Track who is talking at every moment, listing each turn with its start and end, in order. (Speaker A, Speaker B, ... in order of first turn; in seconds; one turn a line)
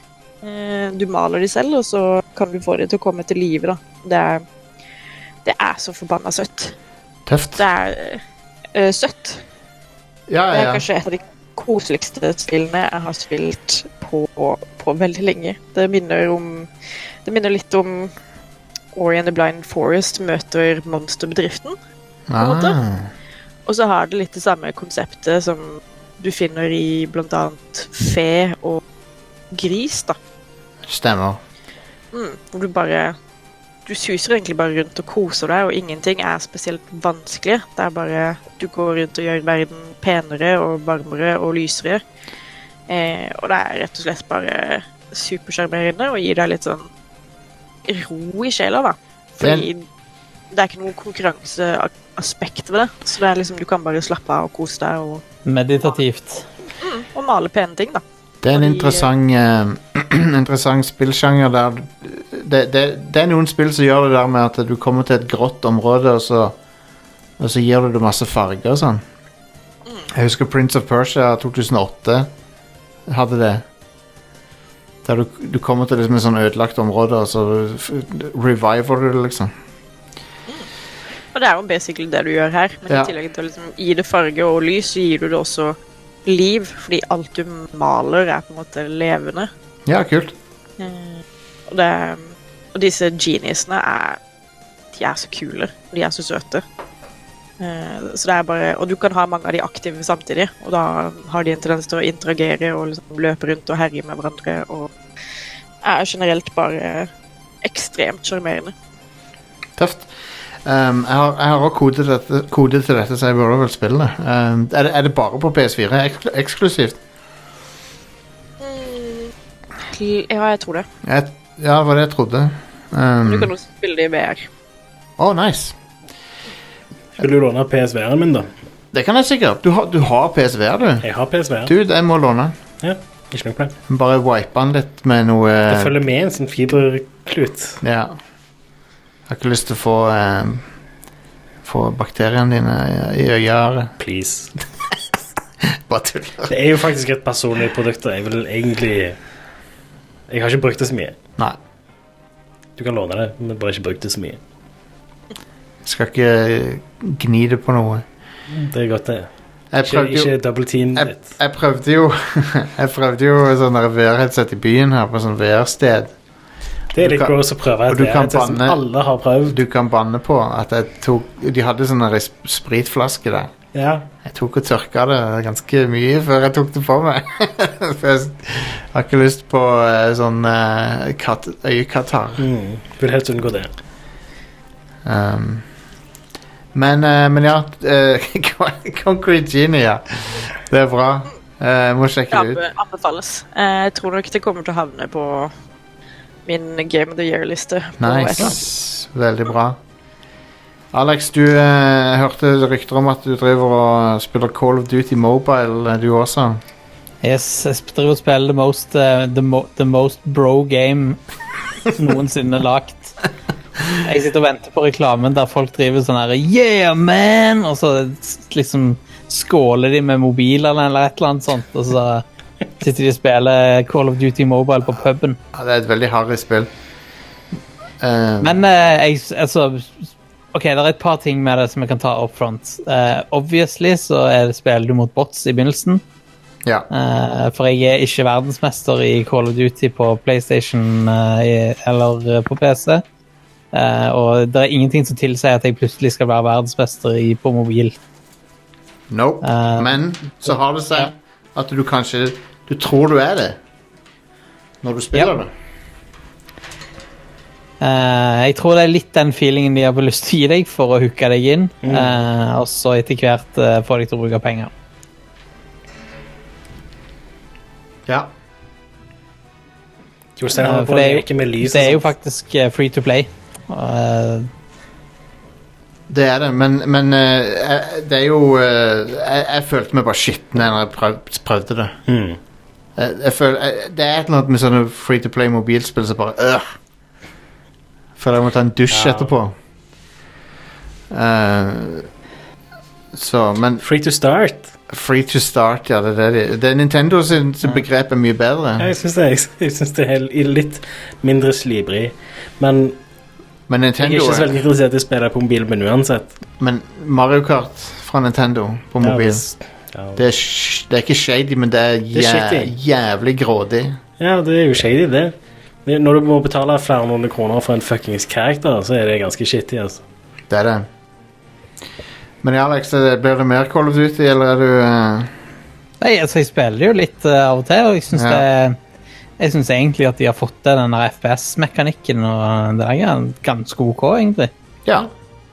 Speaker A: 0.4-4.4
Speaker A: 5.4-6.7
Speaker B: 7.3-7.7
Speaker A: 7.6-8.2
Speaker A: 8.7-9.4
Speaker B: 10.3-10.8
Speaker A: 10.5-16.7
Speaker A: 17.2-18.1
Speaker A: 18.9-21.8
Speaker B: 22.3-23.1
Speaker A: 22.4-22.8
Speaker A: 23.6-28.8
Speaker A: 29.5-30.2
Speaker B: 30.9-31.4
Speaker A: 32.1-33.1
Speaker A: 33.9-42.0
Speaker A: 42.9-46.9
Speaker A: 47.9-49.9
Speaker B: 49.4-49.7
Speaker A: 50.5-55.2
Speaker C: 55.5-56.5
Speaker A: 56.8-59.1
Speaker B: 58.4-66.6
Speaker B: 67.4-69.0
Speaker B: 70.1-72.3
Speaker B: 73.1-73.7
Speaker B: 75.0-79.5
Speaker A: 81.3-89.5
Speaker B: 89.8-90.3
Speaker A: 90.8-94.2
Speaker A: 94.9-96.6
Speaker A: 97.6-104.9
Speaker A: 105.8-107.1
Speaker A: 107.6-108.7
Speaker B: 109.8-110.1
Speaker B: 110.6-117.0
Speaker A: 118.6-120.9
Speaker B: 121.0-123.5
Speaker A: 123.2-124.5
Speaker B: 125.2-125.8
Speaker D: 127.2-128.5
Speaker B: 128.9-131.1
Speaker D: 131.0-131.7
Speaker B: 131.7-132.6
Speaker D: 132.8-133.7
Speaker B: 133.9-135.9
Speaker D: 135.7-137.8
Speaker B: 137.8-138.2
Speaker B: 139.3-140.7
Speaker B: 141.7-143.9
Speaker D: 144.0-144.5
Speaker B: 145.6-146.5
Speaker D: 146.5-149.2
Speaker D: 150.3-151.2
Speaker D: 152.8-154.4
Speaker B: 155.8-158.1
Speaker D: 158.5-159.3
Speaker B: 159.7-160.3
Speaker D: 159.8-161.2
Speaker B: 160.9-166.1
Speaker D: 166.9-169.6
Speaker B: 167.0-167.3
Speaker B: 167.9-168.8
Speaker B: 169.5-173.5
Speaker D: 173.7-174.1
Speaker B: 174.2-182.4
Speaker D: 182.4-183.7
Speaker B: 185.1-185.7
Speaker B: 186.7-192.6
Speaker A: 192.3-195.5
Speaker A: 196.4-198.6
Speaker B: 198.0-199.8
Speaker B: 200.9-206.6
Speaker C: 207.2-211.2
Speaker C: 211.9-213.2
Speaker C: 214.0-222.2
Speaker C: 222.8-225.4
Speaker B: 225.5-226.7
Speaker B: 228.0-228.6
Speaker C: 228.4-236.0
Speaker C: 236.9-243.0
Speaker C: 243.7-248.0
Speaker B: 249.1-253.6
Speaker C: 249.4-251.1
Speaker B: 254.8-255.5
Speaker C: 257.8-264.7
Speaker D: 261.8-262.2
Speaker D: 270.4-272.1
Speaker C: 270.6-274.5
Speaker B: 276.1-282.0
Speaker D: 282.1-282.4
Speaker B: 282.9-286.7
Speaker B: 288.2-289.6
Speaker D: 288.9-289.3
Speaker B: 291.1-292.1
Speaker B: 293.1-293.8
Speaker D: 293.8-294.7
Speaker B: 294.9-298.9
Speaker D: 298.8-303.0
Speaker B: 303.7-304.5
Speaker D: 304.0-306.4
Speaker B: 306.6-309.4
Speaker D: 309.0-310.2
Speaker B: 310.1-314.0
Speaker D: 312.1-312.7
Speaker D: 314.2-320.0
Speaker B: 320.5-320.9
Speaker B: 322.4-325.3
Speaker C: 326.0-328.8
Speaker B: 328.1-328.4
Speaker C: 329.4-334.5